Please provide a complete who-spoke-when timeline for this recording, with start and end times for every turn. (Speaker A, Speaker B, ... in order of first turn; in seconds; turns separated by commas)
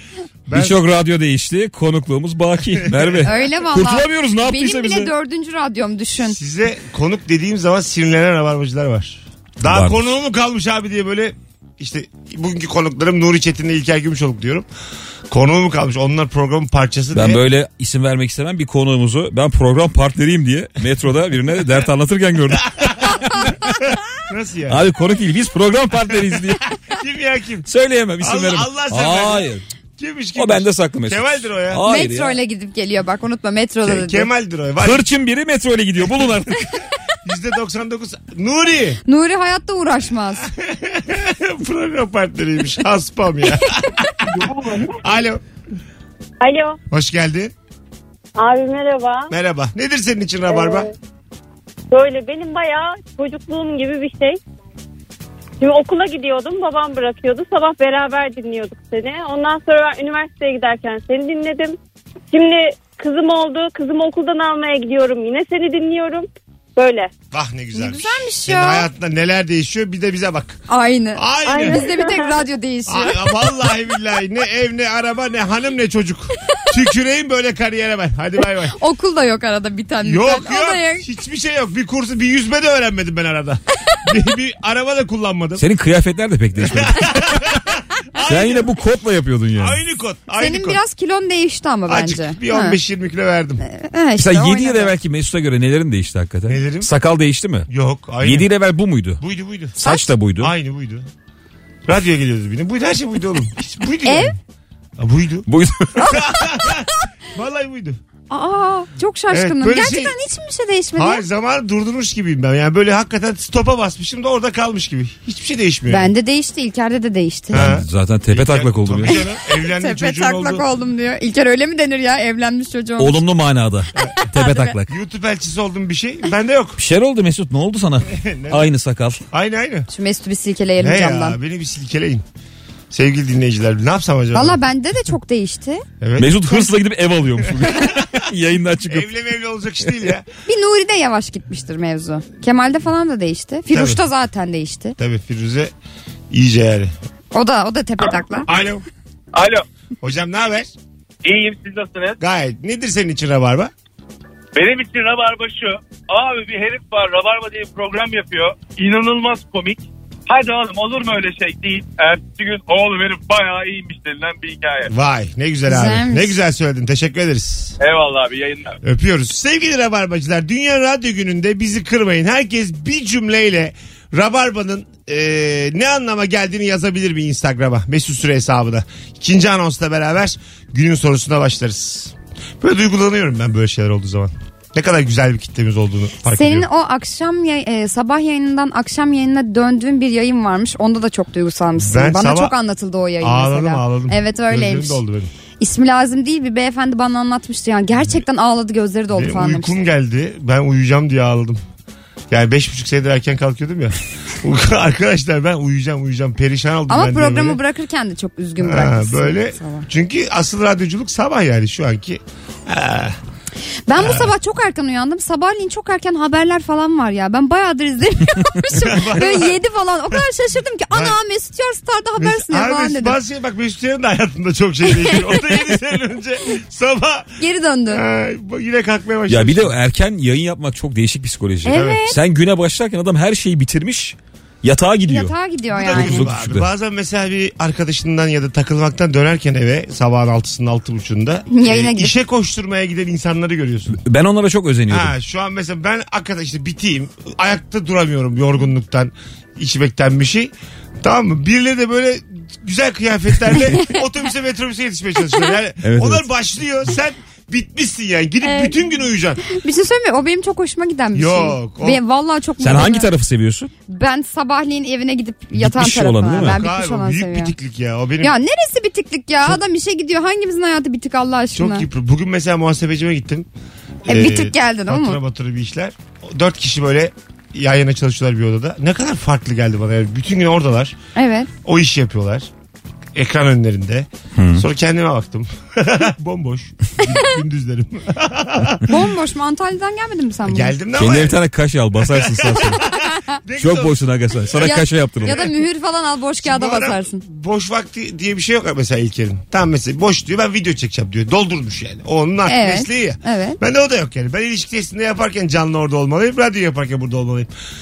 Speaker A: 0.5-0.8, Speaker B: 0.5-5.1, Speaker A: 2.8-3.3, Speaker C: 3.2-6.4, Speaker A: 6.2-14.7, Speaker B: 9.7-10.1, Speaker A: 15.3-17.4, Speaker B: 17.1-23.5, Speaker A: 22.8-23.2, Speaker A: 24.3-24.8, Speaker B: 24.7-26.6, Speaker A: 26.1-27.7, Speaker B: 27.7-29.6, Speaker A: 28.2-31.8, Speaker B: 30.4-32.4, Speaker C: 31.8-34.3, Speaker A: 33.8-35.1, Speaker B: 34.8-36.6, Speaker A: 36.0-36.5, Speaker A: 37.2-39.0, Speaker C: 39.0-40.5, Speaker A: 40.5-45.4, Speaker D: 46.4-46.8, Speaker A: 46.9-47.5, Speaker D: 48.4-49.3, Speaker A: 49.3-50.9, Speaker D: 50.5-50.9, Speaker D: 51.9-54.4, Speaker D: 55.6-61.8, Speaker D: 62.3-67.1, Speaker A: 67.3-70.6, Speaker C: 67.7-68.9, Speaker C: 70.7-73.3, Speaker A: 71.1-71.8, Speaker D: 71.5-72.3, Speaker A: 72.9-78.8, Speaker C: 78.7-81.0, Speaker A: 80.0-85.7, Speaker B: 85.6-87.4, Speaker A: 86.6-88.7, Speaker B: 88.3-89.8, Speaker A: 89.6-90.8, Speaker C: 90.4-92.8, Speaker A: 91.9-93.6, Speaker C: 93.6-94.9, Speaker B: 94.2-97.7, Speaker A: 96.5-96.9, Speaker A: 97.7-98.5, Speaker B: 98.2-99.2, Speaker A: 99.2-101.1, Speaker B: 99.8-100.5, Speaker A: 101.8-104.4, Speaker C: 104.0-104.3, Speaker A: 105.0-108.0, Speaker B: 105.5-106.2, Speaker C: 106.0-106.4, Speaker C: 108.3-111.2, Speaker A: 109.3-110.1, Speaker A: 111.0-116.1, Speaker C: 115.9-117.8, Speaker A: 117.5-120.6, Speaker B: 117.5-119.2, Speaker C: 119.0-123.2, Speaker B: 123.0-124.9, Speaker A: 124.0-124.2, Speaker C: 124.3-124.7, Speaker A: 124.8-126.8, Speaker B: 126.8-129.2, Speaker A: 128.1-128.7, Speaker A: 129.3-129.9, Speaker C: 129.9-131.4, Speaker A: 130.8-132.2, Speaker A: 132.9-134.6, Speaker C: 134.3-135.8, Speaker A: 136.0-136.4, Speaker B: 136.2-139.1, Speaker A: 137.6-138.1, Speaker A: 138.9-140.2, Speaker C: 140.4-144.9, Speaker A: 143.7-144.0, Speaker A: 145.0-145.7, Speaker A: 146.3-146.9, Speaker C: 147.3-148.5, Speaker A: 148.4-148.8, Speaker E: 149.3-149.6, Speaker A: 150.0-150.7, Speaker E: 151.2-152.2, Speaker A: 152.2-153.7, Speaker E: 154.5-164.9, Speaker A: 164.9-167.8, Speaker C: 165.7-166.3, Speaker E: 167.8-168.8, Speaker A: 168.8-186.7, Speaker C: 186.2-195.0, Speaker A: 191.8-192.5, Speaker A: 193.2-195.3, Speaker C: 195.6-199.7, Speaker A: 199.1-201.6, Speaker A: 202.3-207.6, Speaker C: 206.9-209.9, Speaker A: 208.6-213.2, Speaker C: 213.9-223.2, Speaker A: 214.0-214.3, Speaker A: 218.7-219.6, Speaker A: 220.9-221.2, Speaker A: 222.2-227.4, Speaker C: 225.0-225.3, Speaker C: 227.4-228.0, Speaker A: 227.9-229.7, Speaker B: 229.3-236.7, Speaker C: 231.6-232.2, Speaker A: 231.7-232.0, Speaker C: 235.1-236.3, Speaker A: 235.7-244.0, Speaker C: 241.5-242.1, Speaker B: 243.9-245.1, Speaker A: 244.9-259.4, Speaker B: 255.8-256.2, Speaker C: 258.4-258.8, Speaker C: 259.4-263.1, Speaker A: 261.1-262.0, Speaker B: 262.6-263.7, Speaker C: 263.9-267.5, Speaker B: 265.5-266.6, Speaker A: 266.4-268.3, Speaker C: 268.2-271.9, Speaker A: 271.5-273.5, Speaker A: 274.1-281.0, Speaker C: 274.1-275.2, Speaker C: 281.1-281.5, Speaker A: 281.6-282.5, Speaker A: 283.1-288.9, Speaker B: 284.4-284.6, Speaker C: 288.9-290.8, Speaker A: 290.5-291.4, Speaker B: 291.0-292.8, Speaker A: 291.9-292.9, Speaker C: 292.9-293.3, Speaker A: 293.5-295.5, Speaker B: 293.6-295.4, Speaker C: 294.6-297.2, Speaker A: 296.4-307.5, Speaker C: 302.5-303.6